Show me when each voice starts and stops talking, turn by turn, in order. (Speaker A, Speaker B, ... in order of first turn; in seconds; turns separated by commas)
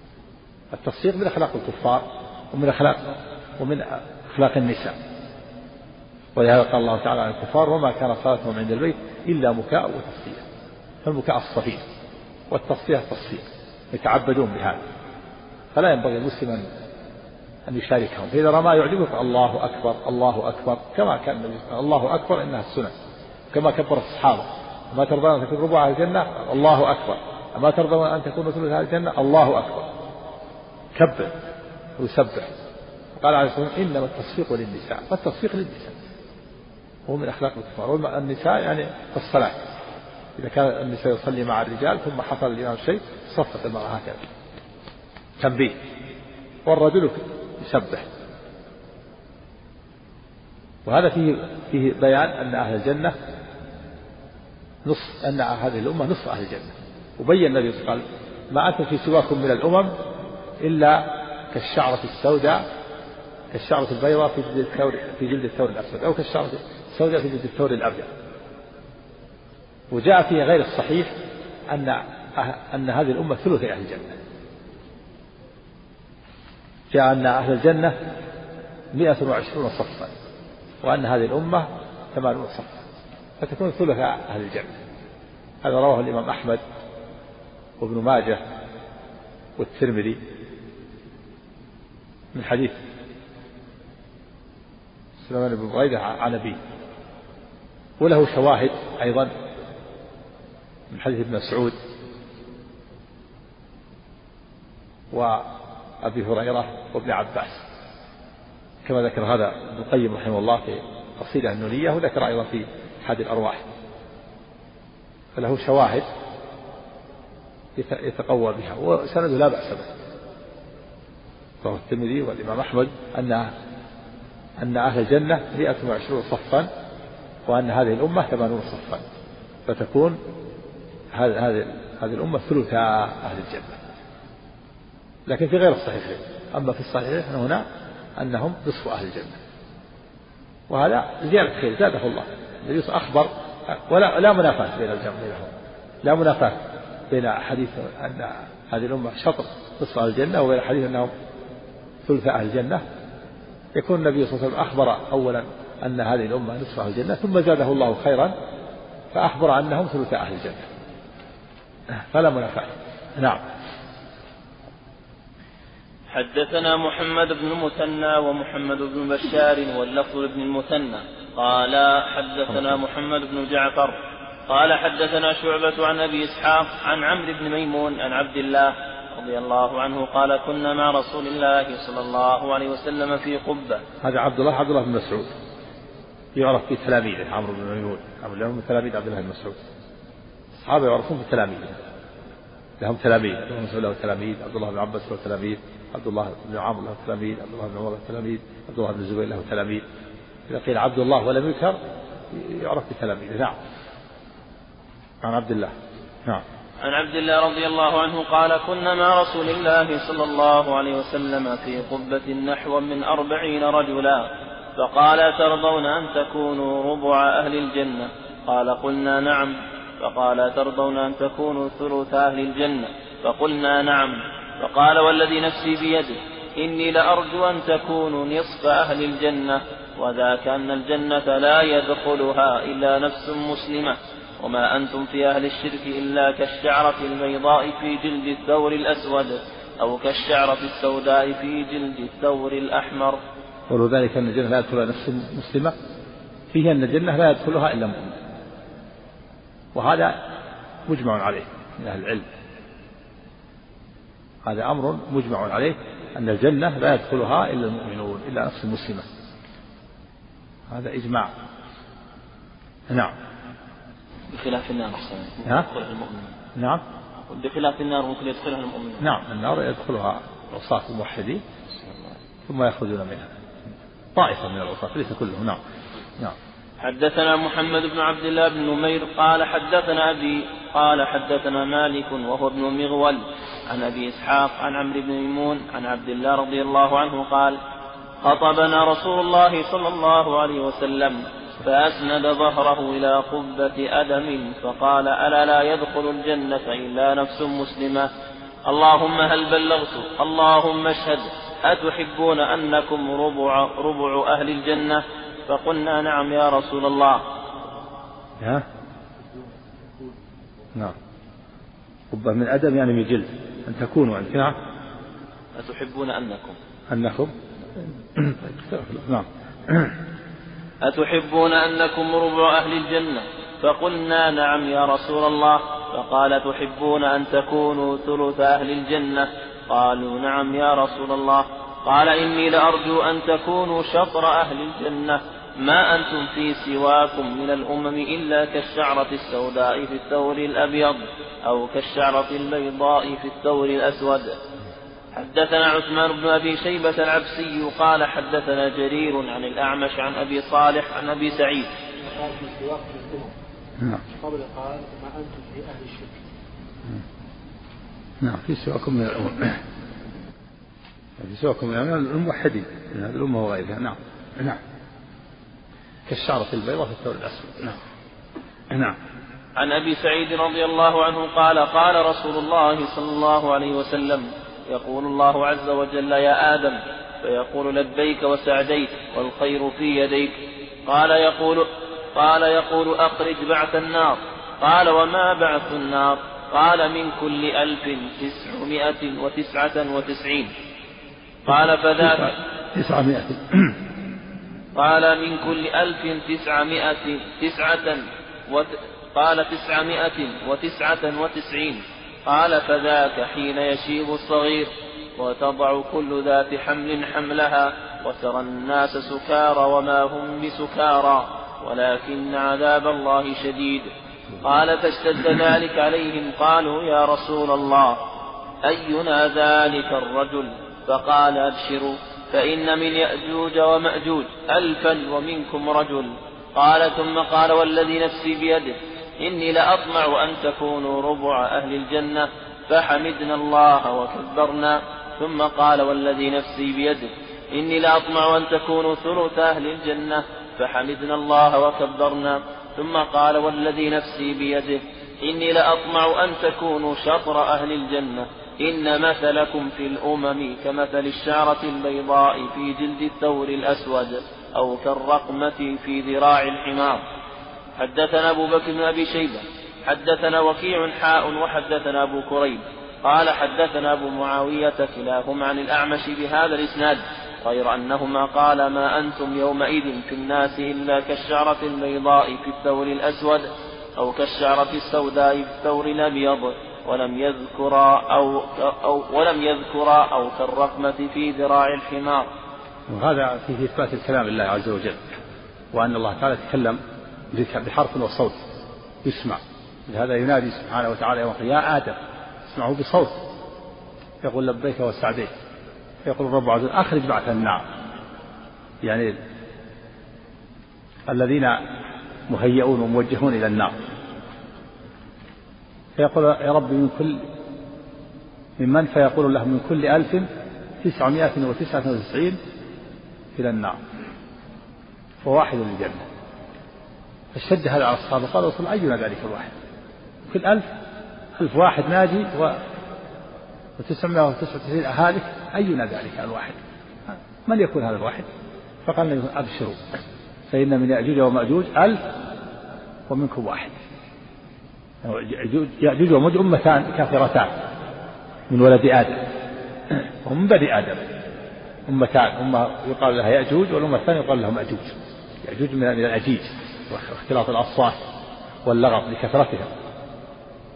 Speaker A: 0.7-4.9, Speaker A: 6.3-10.4, Speaker A: 11.0-11.8, Speaker A: 12.5-14.8, Speaker A: 15.7-16.6, Speaker A: 17.7-22.9, Speaker A: 23.5-29.9, Speaker A: 30.9-31.3, Speaker A: 32.0-32.5, Speaker A: 33.1-36.0, Speaker A: 37.0-39.6, Speaker A: 40.4-44.2, Speaker A: 45.4-45.8, Speaker A: 46.6-48.0, Speaker A: 50.9-53.1, Speaker A: 54.8-59.9, Speaker A: 60.6-62.6, Speaker A: 63.5-68.1, Speaker A: 69.9-71.1, Speaker A: 71.7-74.1, Speaker A: 76.9-78.0, Speaker A: 78.9-80.1, Speaker A: 80.8-82.8, Speaker A: 83.4-84.7, Speaker A: 85.6-86.6, Speaker A: 87.8-88.4, Speaker A: 89.6-90.2, Speaker A: 92.3-92.8, Speaker A: 95.2-96.6, Speaker A: 98.0-99.3, Speaker A: 100.9-101.7, Speaker A: 105.1-105.5, Speaker A: 106.0-107.6, Speaker A: 108.8-113.6, Speaker A: 115.3-116.1, Speaker A: 117.8-119.9, Speaker A: 121.6-123.5, Speaker A: 124.6-126.7, Speaker A: 127.5-129.0, Speaker A: 129.7-130.2, Speaker A: 131.1-133.8, Speaker A: 135.3-137.6, Speaker A: 138.2-139.4, Speaker A: 140.7-145.5, Speaker A: 146.0-151.1, Speaker A: 152.0-152.8, Speaker A: 153.7-158.3, Speaker A: 159.1-160.6, Speaker A: 161.9-163.4, Speaker B: 166.1-183.8, Speaker A: 184.0-185.3, Speaker A: 186.3-189.6, Speaker A: 190.6-191.8, Speaker A: 192.8-199.8, Speaker A: 200.5-201.8, Speaker A: 202.3-203.6, Speaker A: 205.2-205.7, Speaker B: 206.8-243.2, Speaker A: 243.7-245.7, Speaker A: 246.5-248.2, Speaker A: 249.7-250.2, Speaker A: 250.9-252.3, Speaker A: 254.4-259.1, Speaker A: 260.7-261.3, Speaker B: 264.3-266.3, Speaker A: 266.6-266.8, Speaker B: 267.3-269.1, Speaker A: 269.0-271.4, Speaker A: 272.4-273.3, Speaker A: 274.1-275.6, Speaker B: 276.8-287.6, Speaker B: 288.2-298.1, Speaker B: 298.6-307.2, Speaker A: 308.4-308.6, Speaker A: 312.1-314.6, Speaker B: 315.5-316.6, Speaker A: 316.9-319.9, Speaker B: 320.8-344.4, Speaker B: 345.1-351.7, Speaker C: 352.0-353.3, Speaker C: 354.1-356.2, Speaker A: 358.2-359.6, Speaker A: 361.2-364.6, Speaker A: 366.1-367.8, Speaker A: 368.7-368.9, Speaker B: 369.6-390.5, Speaker B: 391.4-392.4, Speaker A: 391.5-393.8, Speaker B: 394.8-413.9, Speaker B: 414.4-418.0, Speaker B: 418.6-457.0, Speaker B: 457.8-482.3, Speaker A: 482.9-485.2, Speaker A: 485.7-486.8, Speaker A: 487.3-488.4, Speaker A: 489.0-493.3, Speaker A: 494.2-495.3, Speaker A: 496.0-497.6, Speaker A: 498.8-499.1, Speaker A: 501.1-501.6, Speaker A: 502.3-503.8, Speaker A: 506.0-507.2, Speaker A: 508.6-510.3, Speaker A: 510.8-512.4, Speaker A: 513.4-513.8, Speaker A: 515.2-516.0, Speaker A: 517.3-519.5, Speaker A: 520.3-520.7, Speaker A: 521.4-522.6, Speaker A: 523.8-528.3, Speaker A: 528.9-529.8, Speaker A: 530.5-532.0, Speaker A: 533.1-533.7, Speaker A: 535.0-537.5, Speaker A: 538.5-539.3, Speaker A: 539.9-541.1, Speaker A: 541.9-548.0, Speaker A: 548.6-549.7